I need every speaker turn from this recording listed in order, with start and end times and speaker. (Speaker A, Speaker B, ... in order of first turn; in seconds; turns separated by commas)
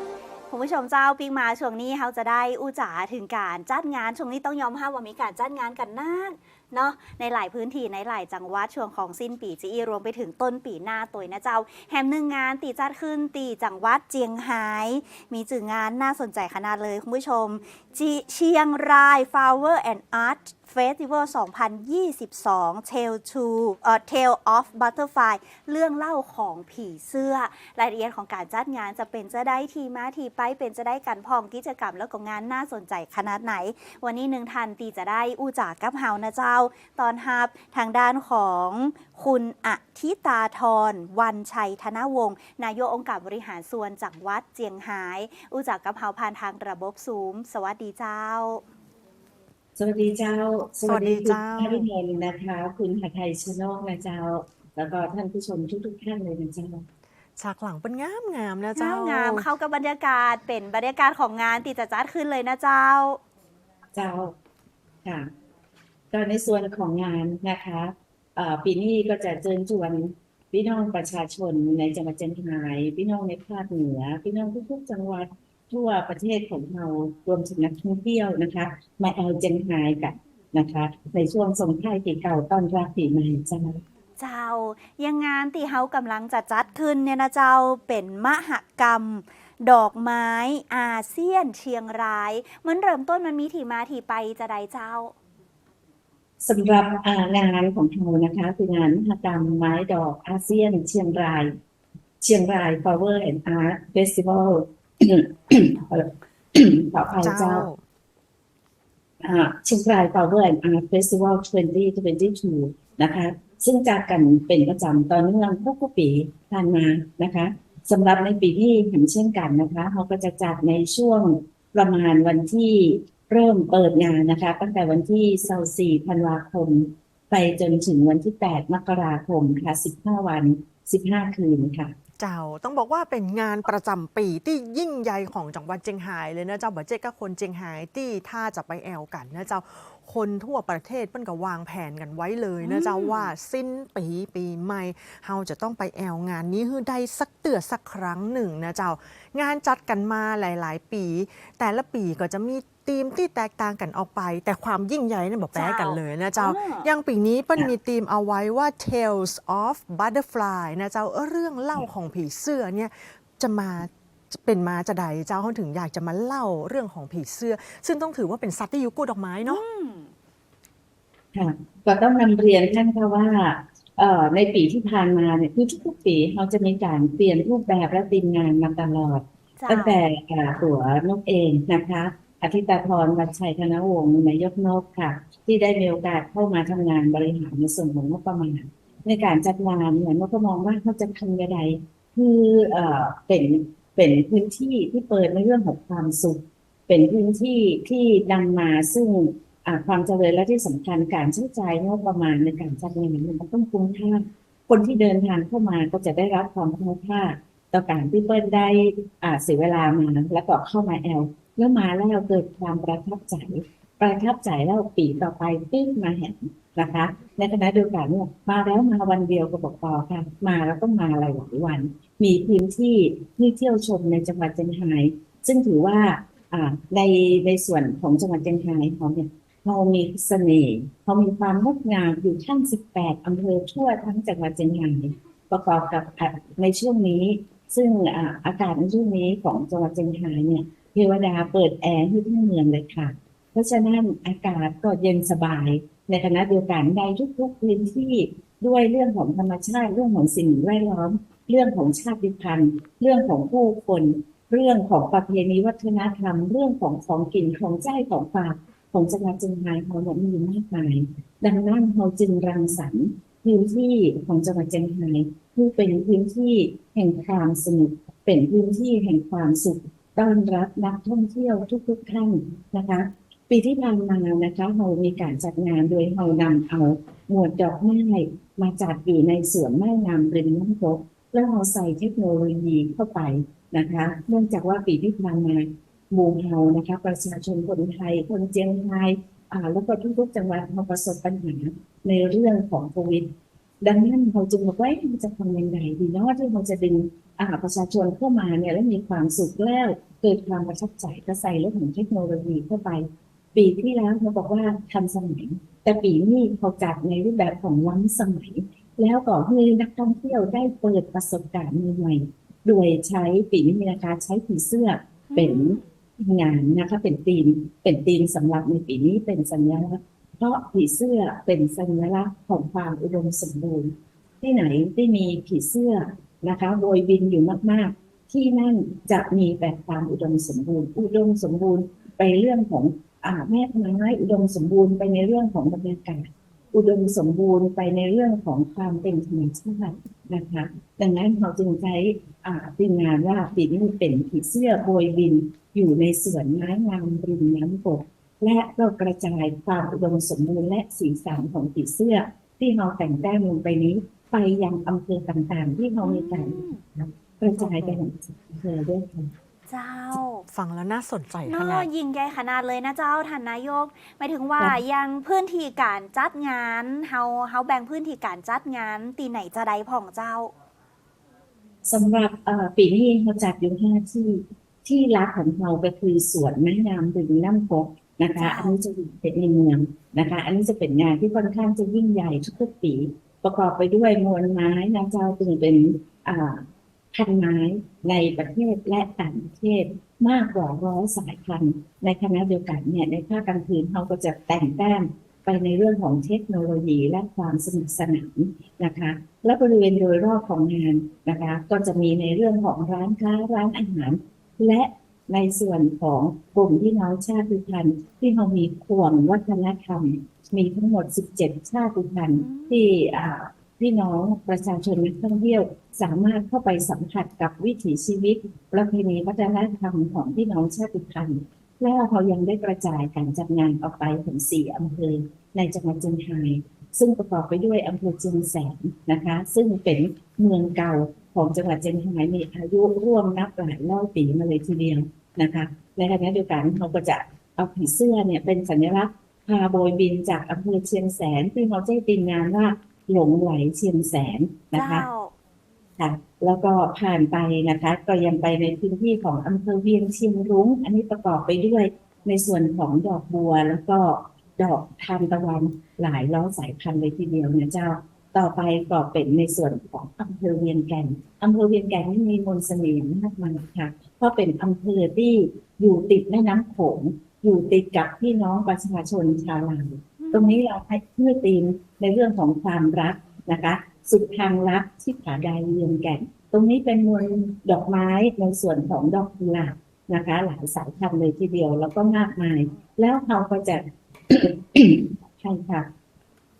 Speaker A: 0.5-48.6, Speaker B: 49.8-56.9, Speaker C: 50.9-51.9, Speaker C: 57.4-59.5, Speaker A: 58.8-63.2, Speaker B: 64.0-64.3, Speaker B: 65.0-65.3, Speaker B: 66.1-83.8, Speaker A: 84.2-95.2, Speaker B: 96.4-101.5, Speaker B: 102.2-107.7, Speaker C: 107.2-107.8, Speaker B: 109.2-131.9, Speaker C: 132.2-169.6, Speaker A: 142.6-143.3, Speaker A: 155.6-156.9, Speaker A: 169.4-170.1, Speaker B: 171.3-359.3, Speaker A: 179.6-180.0, Speaker A: 315.3-315.8, Speaker A: 356.0-356.8, Speaker C: 357.6-358.0, Speaker A: 359.7-360.4, Speaker C: 360.5-361.9, Speaker A: 361.5-370.5, Speaker B: 371.9-445.1, Speaker A: 378.4-378.8, Speaker A: 412.4-413.0, Speaker A: 444.7-445.3, Speaker B: 446.0-485.9, Speaker A: 470.2-470.6